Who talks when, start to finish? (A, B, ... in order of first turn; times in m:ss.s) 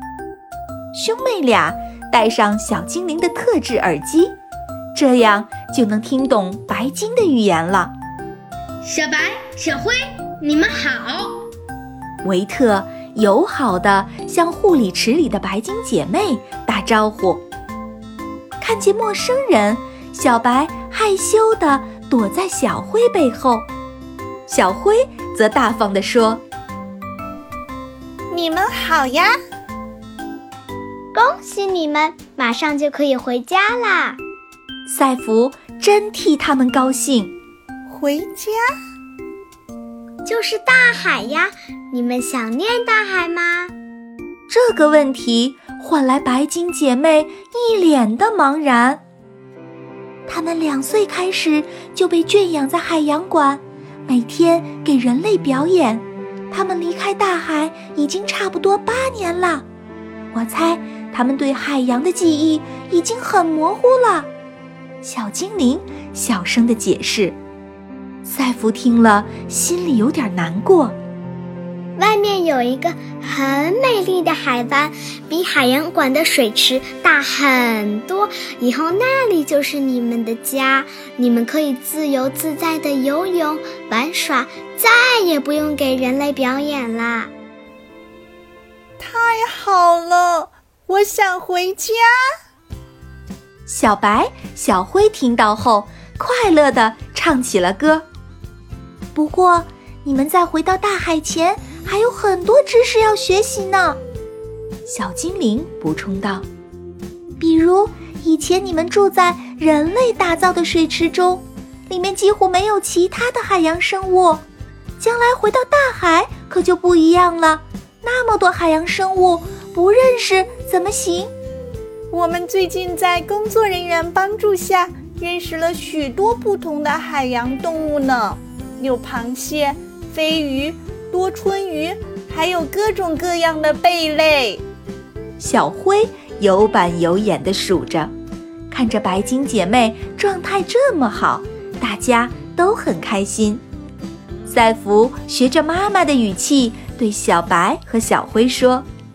0:00.9-0:04.3 A
0:04.9-0:07.9 A
0:08.8-0:11.4 B
0:12.2-0:17.4 A
0:18.6-0:23.7 A
0:24.5-0:26.4 A
0:28.3-0:29.3 C
0:31.1-0:34.2 D
0:34.8-0:37.3 A
0:37.9-0:38.6 C
0:40.2-0:43.7 D
0:44.5-0:49.0 A
0:50.3-0:59.6 A
1:00.3-1:04.3 A
1:05.0-1:07.4 A
1:08.2-1:11.0 A
1:12.0-1:27.3 D
1:29.0-1:32.1 C
1:33.7-1:38.0 A
1:39.1-1:44.0 A
1:44.9-1:46.4 A
1:47.4-1:54.4 A
1:55.0-2:01.3 A
2:02.1-2:14.6 C
2:15.4-2:18.1 A
2:18.7-2:23.6 A
2:24.4-2:28.8 A